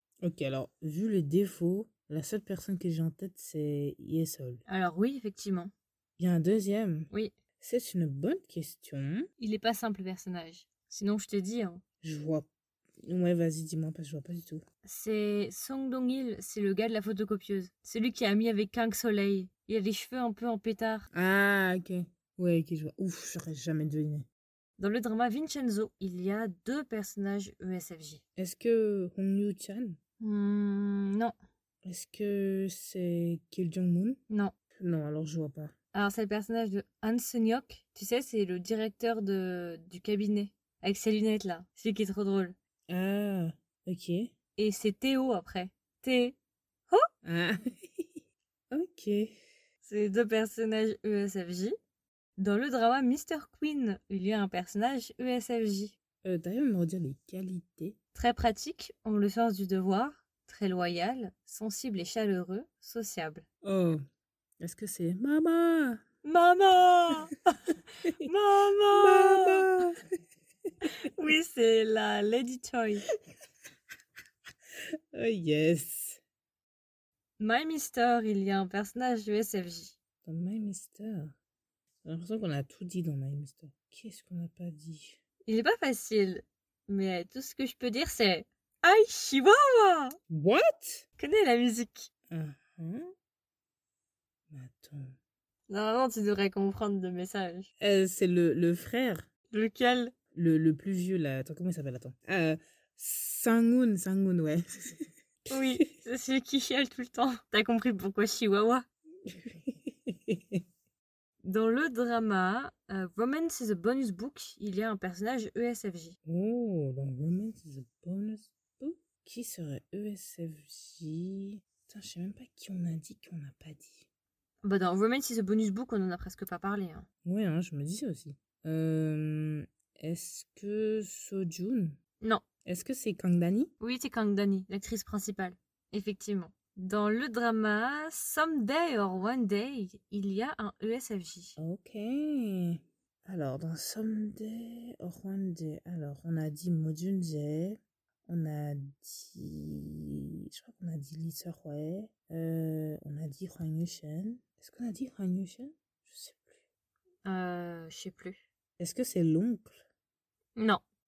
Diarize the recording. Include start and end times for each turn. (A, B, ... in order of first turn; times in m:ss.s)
0:00.2-0:04.6 A
0:04.7-0:05.7 B
0:06.2-0:09.3 A
0:09.4-0:11.8 B
0:12.0-0:12.5 A
0:13.0-0:14.6 A
0:14.8-0:21.1 B
0:21.1-0:24.3 A
0:24.8-0:28.2 B
0:28.4-0:30.0 A
0:30.2-0:31.3 B
0:31.8-0:34.2 A
0:34.8-0:35.7 A
0:35.9-0:42.6 B
0:42.9-0:44.3 A
0:44.6-0:46.4 B
0:47.2-0:49.3 A
0:49.8-0:51.7 B
0:52.4-0:56.0 B
0:56.2-0:58.0 A
0:58.1-1:03.5 B
1:03.6-1:04.0 A
1:04.6-1:06.0 A
1:06.2-1:07.5 B
1:08.2-1:09.7 B
1:09.0-1:10.0 A
1:11.0-1:13.1 B
1:15.1-1:16.2 A
1:17.4-1:20.0 B
1:20.2-1:21.4 A
1:22.0-1:25.2 A
1:25.5-1:30.2 B
1:30.3-1:31.1 A
1:31.2-1:32.1 B
1:32.3-1:33.1 A
1:34.5-1:35.1 A
1:35.7-1:37.7 B
1:37.8-1:39.3 A
1:39.5-1:40.1 B
1:40.4-1:45.8 A
1:45.5-1:48.8 B
1:49.3-1:50.6 A
1:51.4-1:56.2 B
1:56.3-2:04.1 A
2:04.6-2:07.1 B
2:07.2-2:12.0 A
2:12.7-2:13.7 A
2:13.8-2:21.6 B
2:21.6-2:36.6 A
2:37.2-2:38.4 B
2:38.8-2:39.8 A
2:40.6-2:40.8 B